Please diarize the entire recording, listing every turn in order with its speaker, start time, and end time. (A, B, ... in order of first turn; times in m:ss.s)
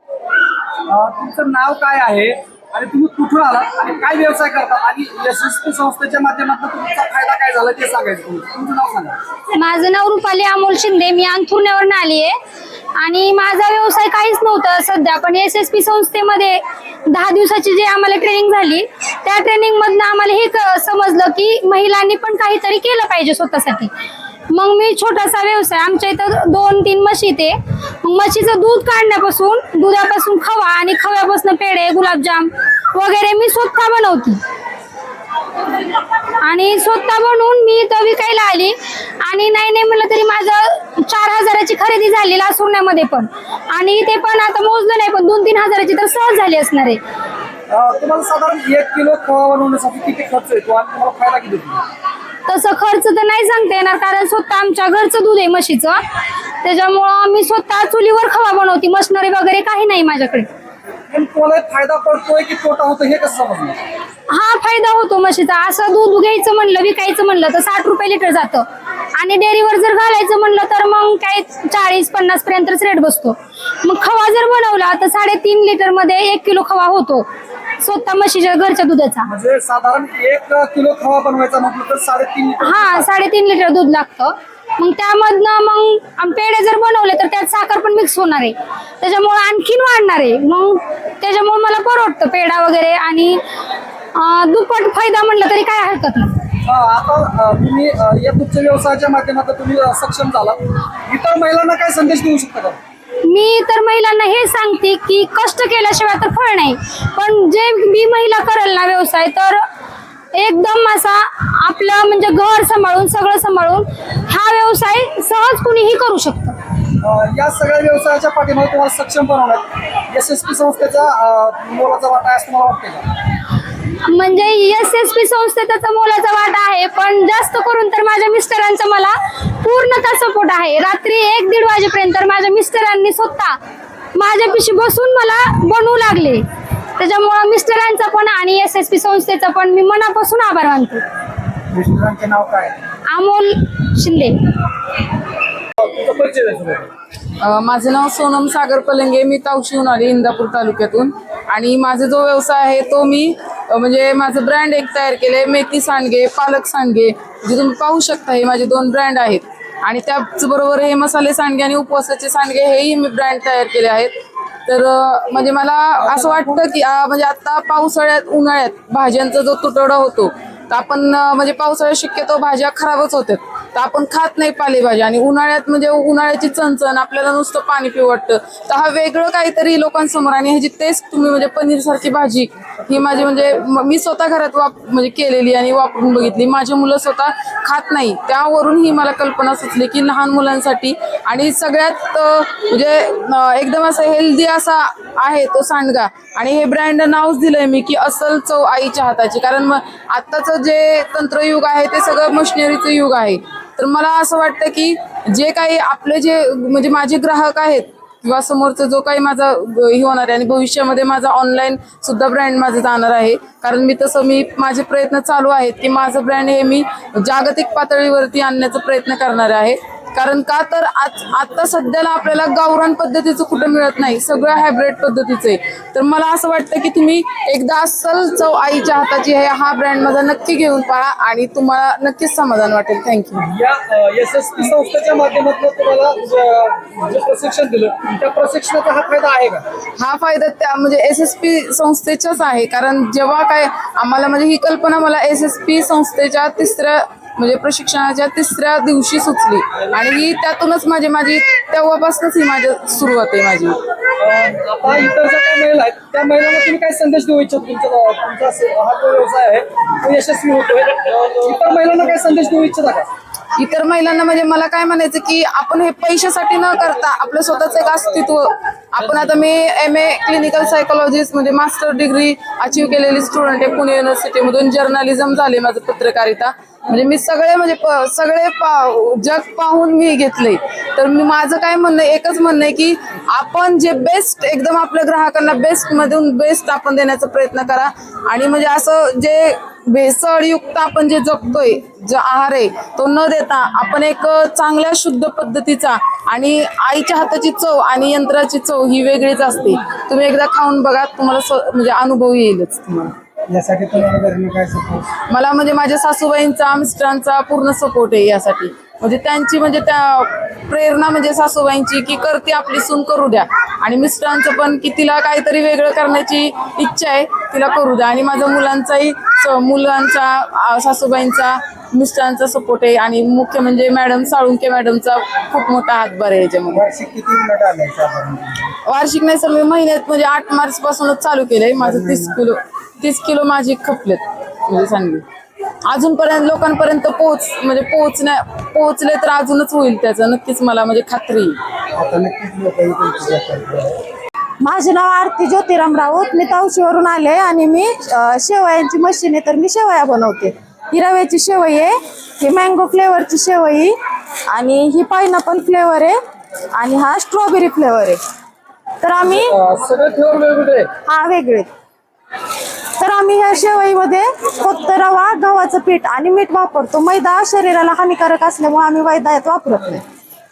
0:00.9-0:09.2 A
0:09.5-0:12.4 B
0:13.0-0:23.9 B
0:24.5-0:34.4 B
0:36.2-0:47.0 B
0:47.7-0:51.8 A
0:52.5-0:56.0 B
0:56.6-1:00.5 B
1:01.1-1:03.8 A
1:04.3-1:17.3 B
1:17.8-1:19.3 B
1:19.3-1:23.1 A
1:22.6-1:33.4 B
1:34.1-1:36.4 B
1:36.6-1:42.8 A
1:43.2-1:49.6 B
1:50.3-1:56.6 B
1:57.0-2:03.0 A
2:04.0-2:13.6 B
2:14.1-2:16.4 B
2:17.0-2:21.0 B
2:21.7-2:22.7 A
2:23.1-2:24.5 B
2:25.8-2:26.9 A
2:27.4-2:44.1 C
2:44.7-3:53.5 C
2:46.0-2:46.6 A
3:53.5-3:59.6 A
4:00.0-4:13.8 C
4:14.2-4:23.1 A
4:23.5-5:03.1 C
5:03.5-5:05.1 A
5:05.3-5:26.8 C
5:26.7-5:28.7 A
5:28.8-5:35.2 C
5:31.8-5:32.4 A
5:35.9-5:41.6 C
5:42.0-5:44.0 A
5:44.6-5:53.9 D
5:54.5-5:56.2 D
5:56.7-5:58.2 D
5:59.0-5:59.6 D
5:59.2-6:00.9 A
6:01.0-6:01.7 D
6:03.0-6:10.0 D